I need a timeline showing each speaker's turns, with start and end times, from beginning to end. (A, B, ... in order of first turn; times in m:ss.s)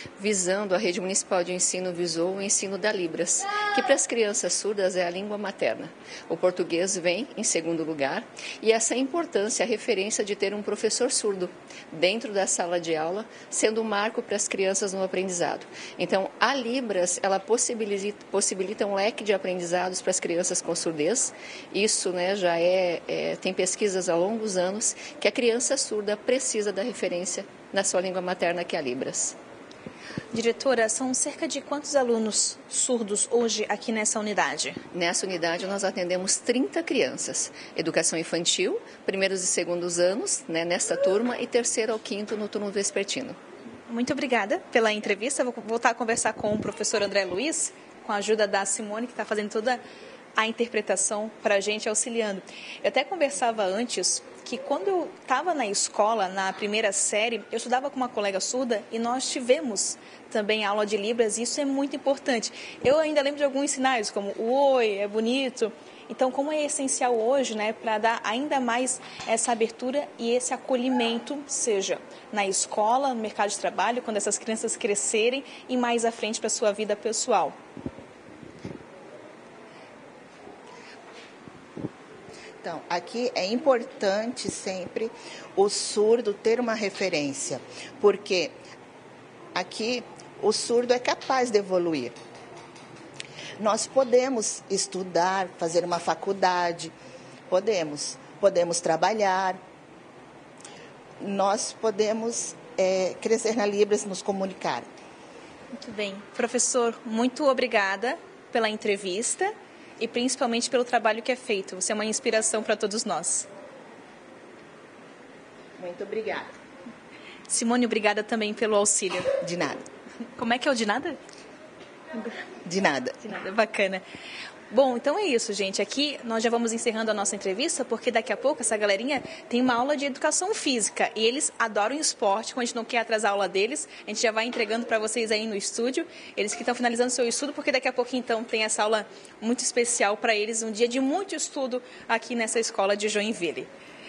0:00.2-0:29.4 A
0:30.3-0:34.8 B
0:34.9-0:43.4 A
0:43.9-0:49.8 B
0:50.4-1:17.6 B
1:22.6-1:28.6 C
1:29.5-1:32.1 C
1:33.6-1:36.9 C
1:37.5-1:39.6 C
1:41.2-1:44.9 C
1:45.8-1:53.5 B
1:55.8-1:56.5 C
1:57.5-1:59.3 B
1:59.4-1:59.8 C
2:00.4-2:01.2 B
2:02.6-2:03.2 C
2:03.2-2:04.0 B
2:04.7-2:23.7 B